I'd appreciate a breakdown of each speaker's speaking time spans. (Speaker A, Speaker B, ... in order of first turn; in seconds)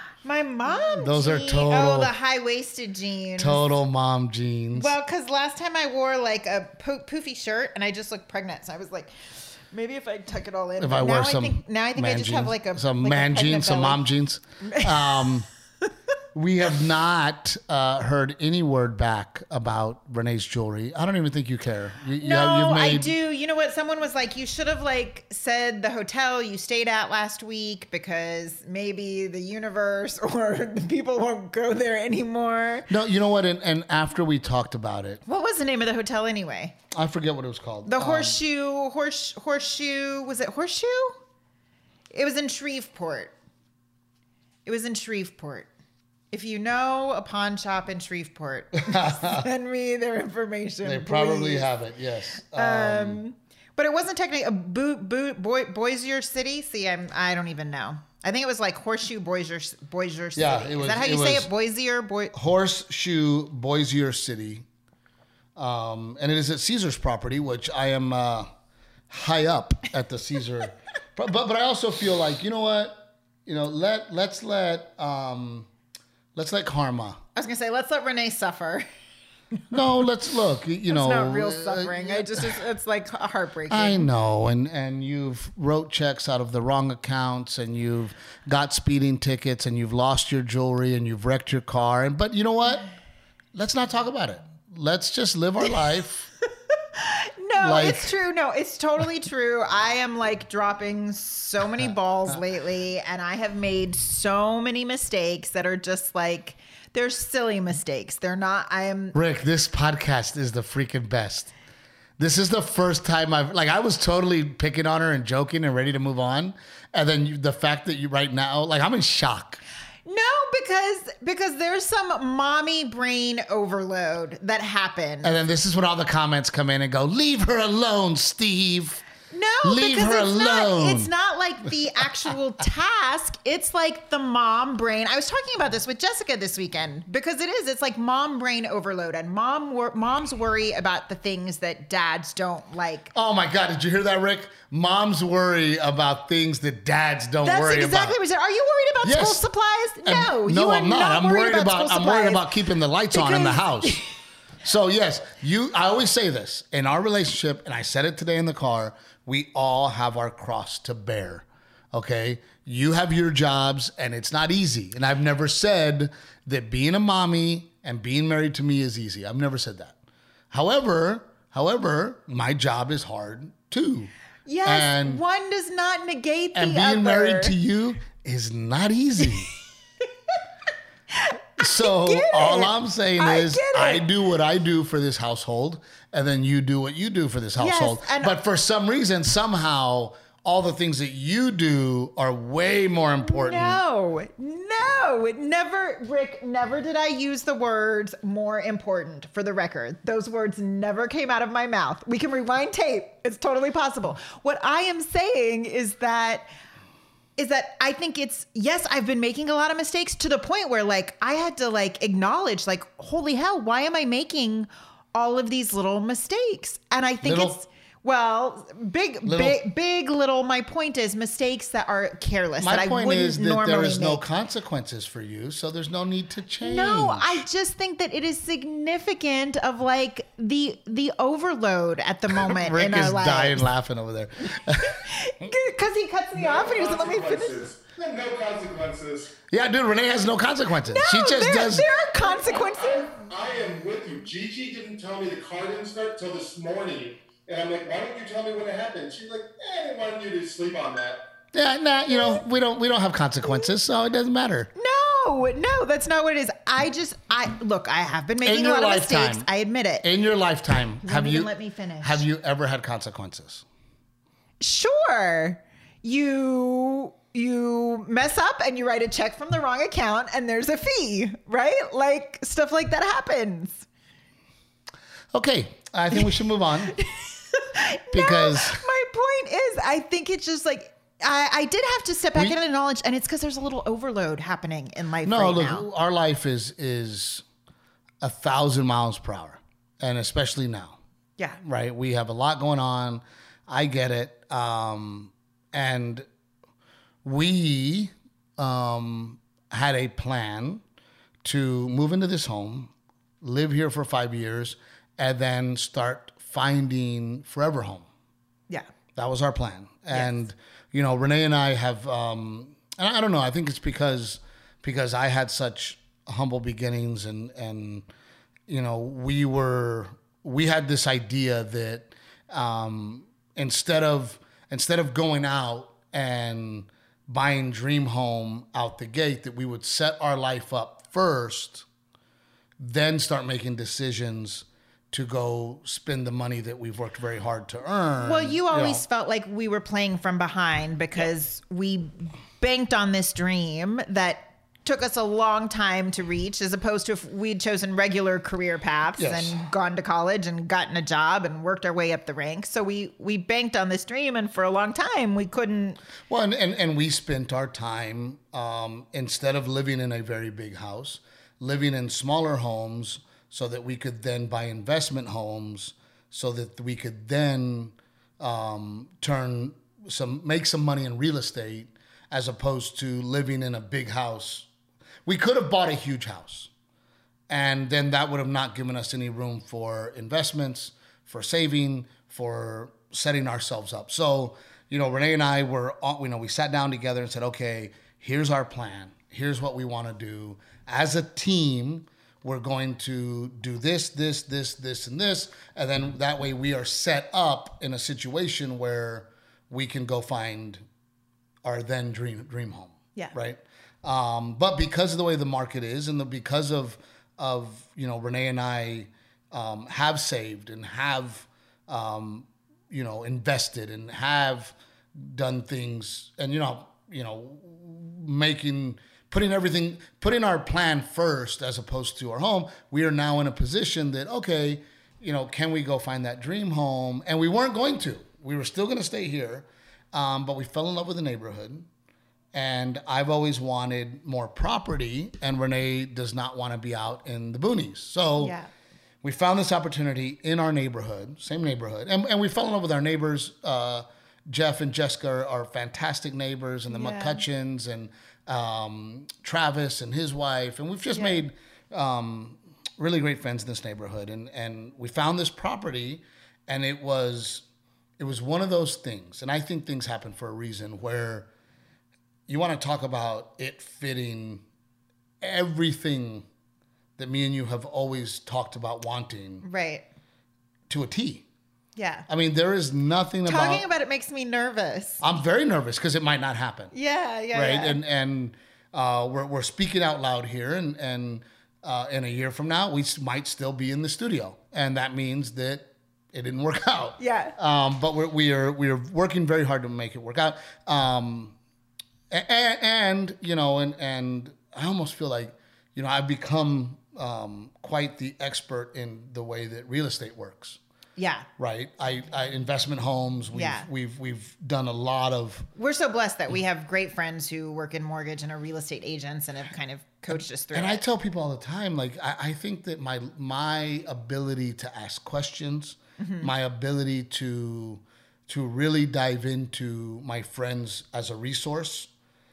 Speaker A: 0.2-3.8, 4.7-14.0, 14.6-15.3, 22.2-32.9, 35.2-36.8, 37.9-41.2, 42.1-43.3, 44.6-45.7, 46.3-51.7, 52.5-62.3, 77.3-78.8, 80.9-84.1, 96.9-109.2, 120.0-125.3, 129.3-143.1, 147.4-152.5, 153.1-154.1, 174.4-177.6, 181.1-184.0, 187.6-188.3, 193.2-206.4, 207.4-224.2, 226.6-233.7, 234.8-237.7, 240.9-243.1, 254.8-260.1, 261.0-262.2, 264.6-273.9, 276.9-285.9, 310.1-310.4, 338.2-356.0, 438.4-438.7, 446.9-447.4, 451.1-451.4, 469.6-470.0, 471.9-472.2, 473.4-475.2, 476.9-478.0, 487.2-487.5, 501.2-501.5, 503.5-503.9, 505.8-511.0, 516.2-516.5
Speaker B: 0.8-2.1, 3.4-4.9, 10.8-15.5, 16.3-23.1, 32.9-35.2, 36.9-38.4, 48.8-49.5, 50.8-53.2, 60.4-61.5, 62.3-64.7, 65.5-68.5, 69.1-75.7, 76.3-77.2, 79.7-82.6, 83.7-92.9, 93.5-96.3, 97.6-98.1, 101.8-102.4, 109.1-111.5, 112.2-119.6, 125.2-129.1, 129.6-131.1, 143.1-148.2, 149.0-149.4, 150.0-154.0, 154.6-170.0, 170.5-174.1, 174.6-175.2, 176.5-179.5, 181.6-193.8, 217.2-217.6, 219.2-219.6, 222.6-227.4, 232.3-235.1, 239.5-241.9, 251.5-254.7, 258.4-259.5, 260.0-261.5, 262.0-263.6, 275.3-276.9, 278.1-278.8, 285.2-287.4, 288.2-291.0, 291.6-296.2, 297.2-300.8, 301.4-308.1, 309.1-318.1, 318.7-331.9, 332.8-339.0, 349.2-349.6, 356.3-374.7, 375.2-376.7, 377.5-400.8, 401.6-431.9, 432.5-438.6, 439.2-457.6, 458.2-461.5, 462.5-464.6, 465.4-466.4, 467.2-469.6, 470.9-471.4, 472.3-473.8, 475.2-476.9, 477.5-491.5, 492.3-500.8, 501.6-505.7, 510.7-522.1
Speaker C: 236.3-239.3, 242.2-251.2